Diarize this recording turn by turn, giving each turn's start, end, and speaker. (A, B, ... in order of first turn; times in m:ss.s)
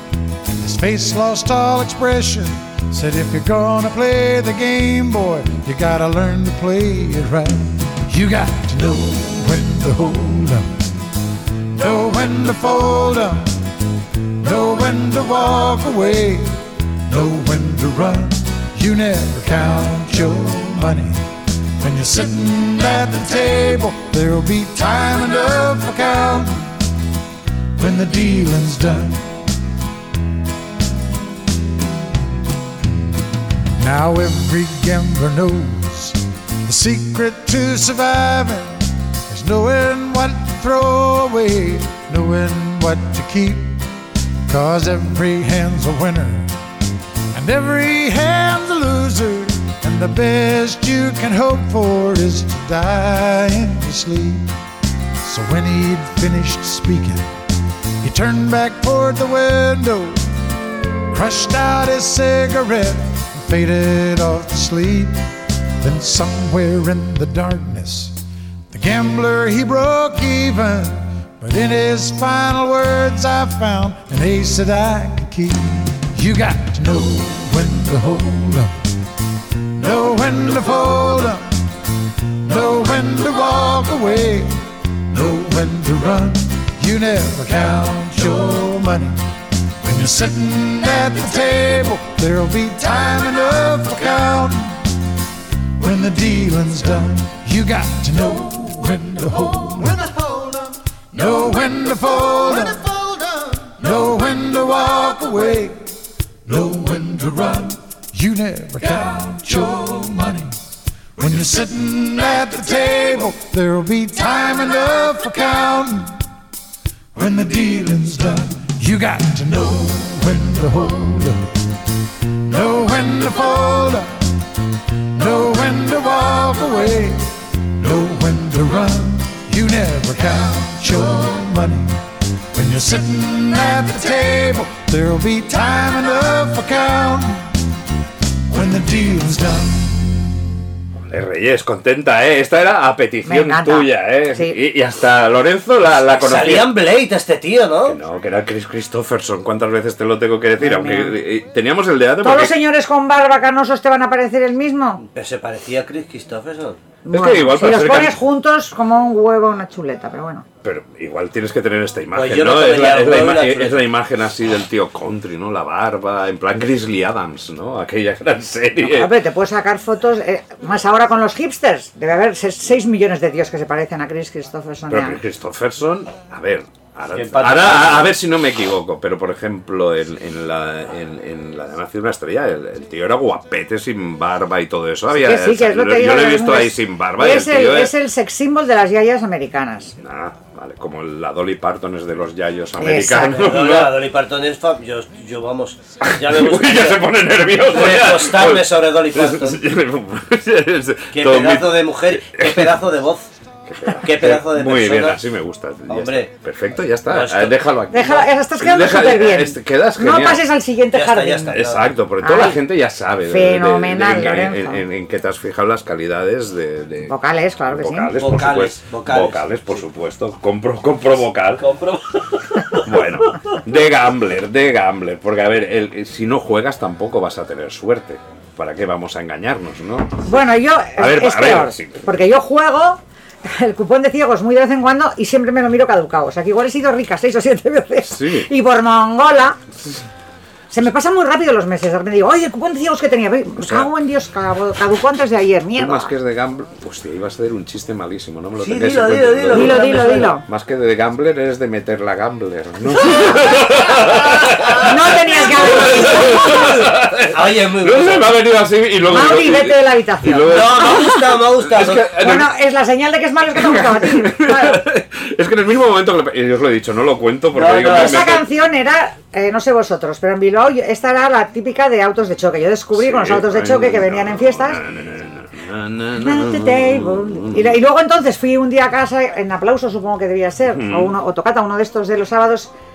0:00.5-0:11.0 A
0:11.7-0:13.7 A
0:14.4-0:26.9 A
0:27.8-0:29.4 A
0:33.8-0:43.9 A
0:44.5-0:46.6 A
0:47.3-0:54.5 A
0:55.2-0:57.3 A
0:58.0-1:00.3 A
1:01.1-1:05.3 A
1:05.8-1:08.2 A
1:08.7-1:18.9 A
1:19.7-1:35.0 A
1:35.8-1:50.6 A
1:51.2-1:56.2 A
1:57.1-2:17.6 A
2:18.5-2:20.3 A
2:21.1-2:26.7 B
2:23.2-2:24.5 C
2:26.2-2:28.0 D
2:27.8-2:32.5 B
2:30.6-2:31.2 C
2:32.2-2:35.0 C
2:35.0-2:36.8 D
2:37.0-2:40.4 C
2:37.1-2:38.2 B
2:40.6-2:49.1 B
2:42.1-2:43.8 D
2:48.8-2:55.2 C
2:54.9-3:07.9 B
2:57.1-2:58.1 D
3:05.1-3:10.0 C
3:10.0-3:13.9 B
3:12.8-3:13.5 C
3:13.3-3:17.1 D
3:16.0-3:22.7 B
3:17.6-3:19.6 D
3:21.1-3:23.3 D
3:23.7-3:30.4 B
3:24.0-3:25.2 D
3:25.9-3:26.3 D
3:27.1-3:27.7 D
3:27.9-3:31.6 C
3:30.9-3:31.9 D
3:31.5-3:37.1 B
3:32.2-3:32.6 C
3:33.2-3:34.8 C
3:37.1-3:38.1 C
3:37.7-3:41.6 B
3:38.2-3:39.8 D
3:41.6-3:42.8 D
3:42.8-3:50.4 B
3:50.2-3:59.6 C
3:51.0-3:52.0 B
3:58.0-3:58.5 B
4:00.7-4:06.1 C
4:03.6-4:03.9 B
4:05.8-4:22.5 B
4:08.6-4:10.3 D
4:09.5-4:10.4 C
4:14.1-4:14.7 D
4:14.8-4:16.7 C
4:15.5-4:18.3 D
4:19.1-4:21.1 C
4:20.5-4:22.1 D
4:22.2-4:24.8 C
4:23.5-4:28.4 B
4:27.5-4:28.3 D
4:27.8-4:34.8 C
4:32.9-4:37.8 B
4:36.2-4:42.7 C
4:40.7-4:41.1 B